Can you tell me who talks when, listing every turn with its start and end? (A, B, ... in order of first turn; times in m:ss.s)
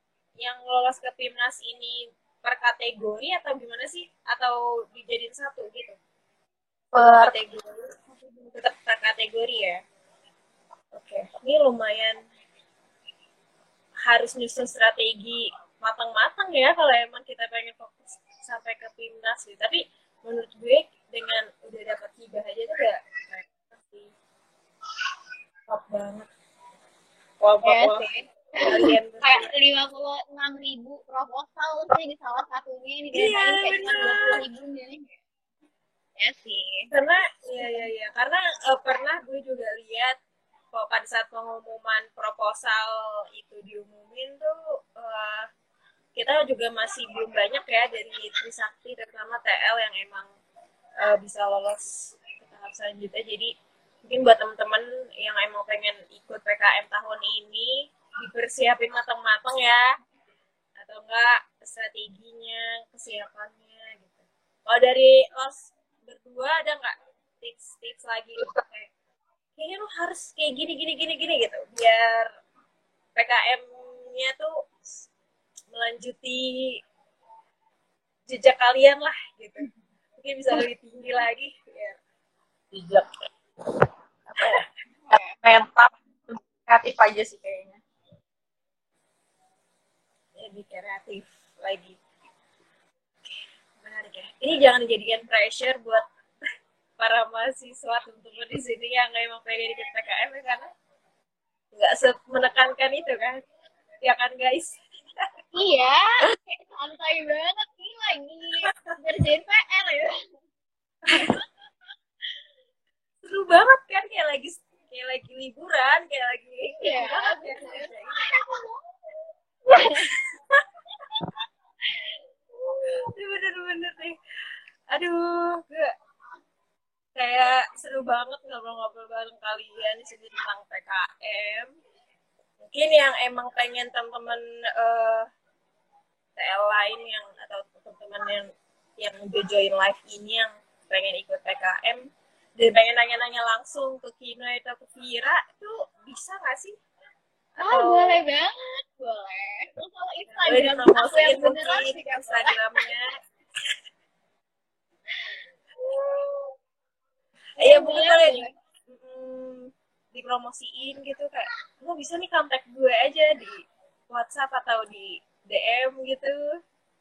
0:00.4-0:06.0 A
0:06.9-0:07.3 B
0:07.0-0:07.9 A
0:08.5-0:09.8 A
0:10.9-0:12.2 A
0:14.0-0:24.1 A
0:25.7-0:26.3 A
0:27.4-0:28.0 A
0:27.6-0:35.2 C
0:28.6-0:29.5 A
0:33.1-0:34.4 A
0:36.2-0:36.9 C
0:36.9-0:40.2 A
0:37.6-0:37.9 C
0:40.7-0:45.5 A
0:46.2-0:50.3 A
0:51.0-0:53.5 A
0:54.0-0:59.8 A
1:00.8-1:08.9 A
1:09.6-1:12.3 A
1:13.2-1:14.5 A
1:15.7-1:16.7 A
1:18.3-1:19.6 A
1:20.2-1:22.0 A
1:22.7-1:23.1 B
1:24.3-1:24.6 B
1:25.1-1:25.4 C
1:25.4-1:27.8 B
1:30.4-1:32.0 A
1:33.3-1:36.0 A
1:37.0-1:40.7 A
1:41.7-1:43.4 A
1:44.0-1:45.3 A
1:45.6-1:50.1 C
1:51.1-1:51.4 C
1:53.3-1:58.4 A
1:56.8-1:58.8 C
1:59.7-2:00.2 C
2:02.0-2:03.0 C
2:03.0-2:04.2 A
2:04.9-2:05.9 A
2:07.2-2:11.7 A
2:12.6-2:15.3 A
2:16.4-2:18.4 A
2:19.0-2:26.8 A
2:27.6-2:28.2 A
2:27.6-2:32.8 C
2:30.3-2:33.1 A
2:35.2-2:36.5 C
2:37.6-2:38.5 C
2:37.6-2:46.4 A